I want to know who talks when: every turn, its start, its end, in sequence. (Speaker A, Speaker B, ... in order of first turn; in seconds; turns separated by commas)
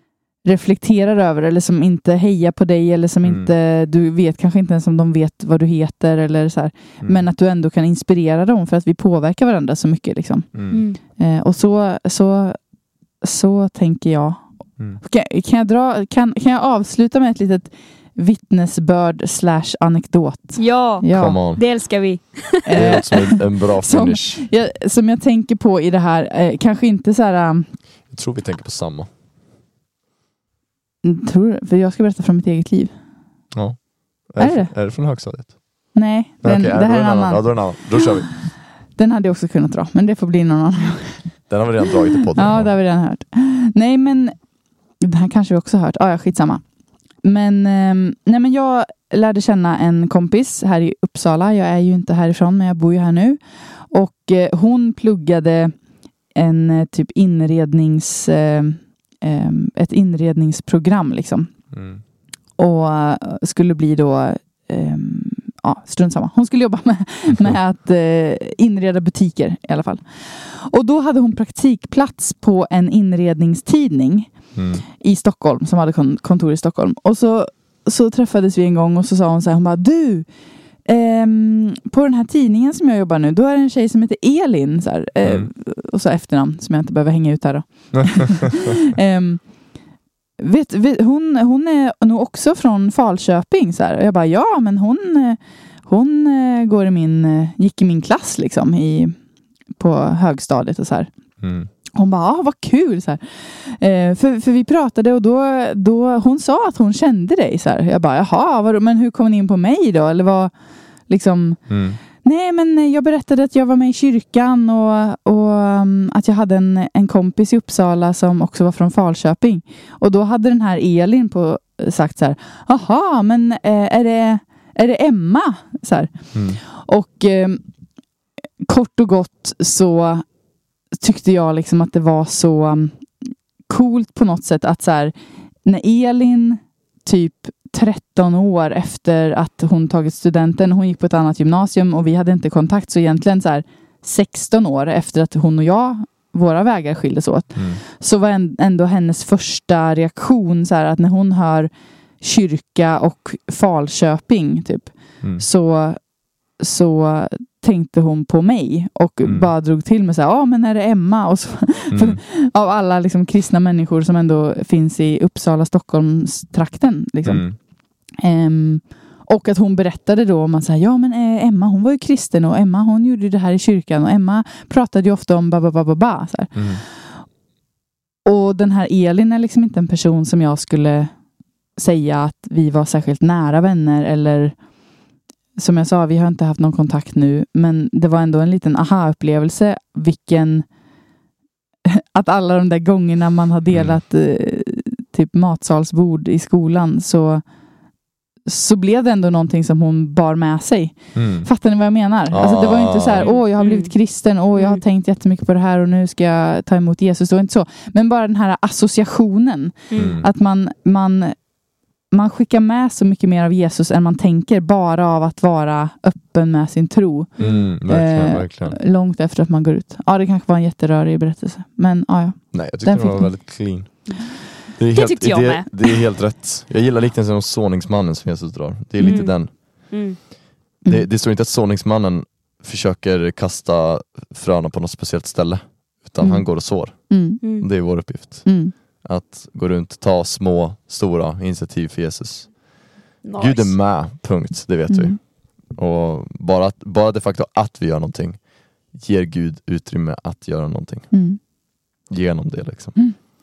Speaker A: 0.5-12.6, Speaker B: 10.5-10.8, Speaker C: 10.7-11.0, Speaker A: 13.2-21.4, Speaker C: 20.6-23.0, Speaker B: 21.1-21.6, Speaker A: 22.6-27.7, Speaker B: 22.7-24.4, Speaker B: 28.1-29.1, Speaker A: 31.0-33.0, Speaker B: 33.5-35.6, Speaker A: 34.4-34.7, Speaker A: 36.0-38.1, Speaker B: 36.4-38.4, Speaker A: 39.0-41.4, Speaker B: 41.5-42.7, Speaker A: 42.4-44.4, Speaker A: 45.0-46.6, Speaker A: 47.2-55.8, Speaker A: 56.4-61.5, Speaker B: 61.7-62.0, Speaker A: 62.6-74.3, Speaker B: 74.5-74.8, Speaker A: 75.0-80.3, Speaker A: 80.8-89.4, Speaker A: 90.4-99.2, Speaker A: 99.8-101.1, Speaker B: 101.4-101.7, Speaker A: 102.0-110.5, Speaker A: 111.1-111.6, Speaker B: 111.7-112.0, Speaker A: 112.2-127.6, Speaker B: 126.3-126.6, Speaker A: 128.7-130.3, Speaker A: 130.9-135.1, Speaker A: 135.7-167.6, Speaker B: 147.6-147.8, Speaker B: 159.2-159.5, Speaker B: 161.9-162.2, Speaker B: 167.2-167.6, Speaker A: 168.2-177.2, Speaker B: 176.6-176.8, Speaker A: 178.2-181.2, Speaker A: 181.8-184.6, Speaker A: 185.6-190.7, Speaker A: 191.9-197.4, Speaker B: 193.7-194.0, Speaker A: 198.5-211.4, Speaker B: 201.1-201.5, Speaker B: 202.3-203.3, Speaker C: 203.2-203.9, Speaker C: 204.6-204.8, Speaker C: 209.9-210.2, Speaker B: 209.9-210.3, Speaker A: 212.1-223.6, Speaker C: 217.4-217.7, Speaker B: 217.4-218.8, Speaker B: 222.5-229.9, Speaker C: 224.9-226.1, Speaker C: 229.0-230.2, Speaker B: 230.9-242.6, Speaker A: 236.2-237.4, Speaker C: 237.4-237.7, Speaker A: 238.4-238.7, Speaker C: 243.2-243.7, Speaker B: 243.4-251.1, Speaker A: 244.9-245.2, Speaker A: 251.1-251.4, Speaker B: 252.1-253.0